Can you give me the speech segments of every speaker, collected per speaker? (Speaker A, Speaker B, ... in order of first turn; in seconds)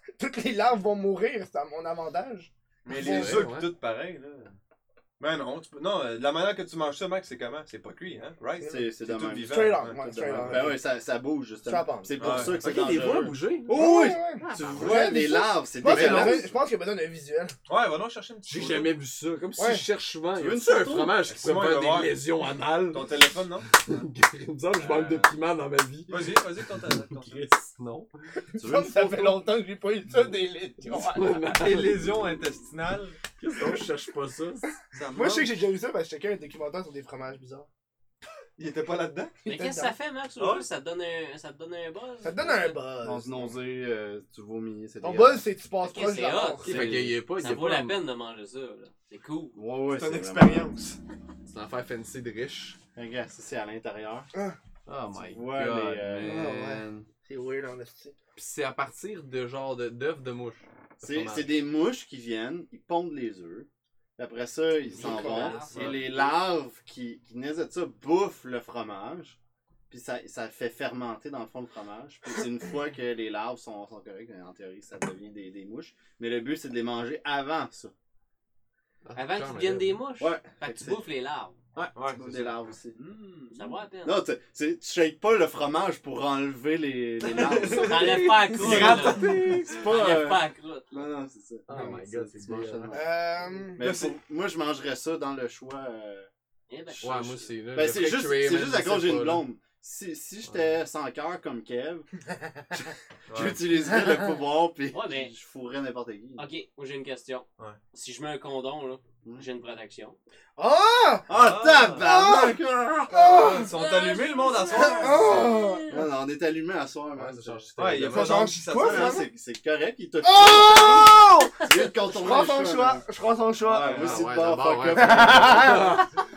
Speaker A: 0.2-3.5, 9.3-10.8, 11.6-12.4, 13.7-17.5, 19.6-19.9, 28.6-31.5, 35.1-37.7, 39.5-40.0, 42.2-43.5, 45.0-46.8, 56.2-58.1, 65.0-65.6, 92.9-93.8, 110.6-111.3, 112.0-113.7, 114.8-115.9, 118.1-119.3, 120.2-124.1, 125.0-126.0
Speaker B: 2.9-4.6, 5.2-10.7, 12.2-12.6, 17.7-18.9, 21.3-22.1, 22.9-23.7, 24.8-25.3, 26.1-27.4, 31.6-33.2, 34.9-35.5, 38.6-39.4, 40.4-40.7, 49.9-51.0, 65.7-66.1, 81.9-82.5, 87.2-89.8, 93.8-94.2, 103.3-103.6, 111.3-112.1, 113.2-115.5, 117.8-119.2, 123.8-124.1
Speaker C: 2.9-3.7, 12.4-13.8, 14.5-14.8, 15.8-16.5, 18.5-28.1, 30.9-32.1, 33.4-34.7, 46.6-48.0, 51.5-52.8, 54.9-56.8, 58.4-61.5, 79.1-80.0, 87.8-89.2, 91.7-93.0, 97.0-99.4, 117.2-118.5, 124.0-126.1
Speaker D: 8.7-16.5, 20.4-21.2, 28.6-29.5, 43.0-45.5, 46.7-47.1, 49.5-50.7, 53.0-54.3, 55.1-57.1, 61.0-69.4, 69.9-77.9, 80.2-81.0, 81.8-83.0, 84.0-93.1, 93.8-96.3, 97.0-102.1, 102.7-106.5, 111.3-113.5, 115.9-117.7, 118.7-123.0, 123.6-125.9
Speaker E: 39.5-42.8, 45.8-49.5, 64.9-66.0, 79.1-81.6, 83.0-84.2, 87.7-91.0, 96.7-97.5, 104.9-105.3, 106.4-110.2, 113.7-116.0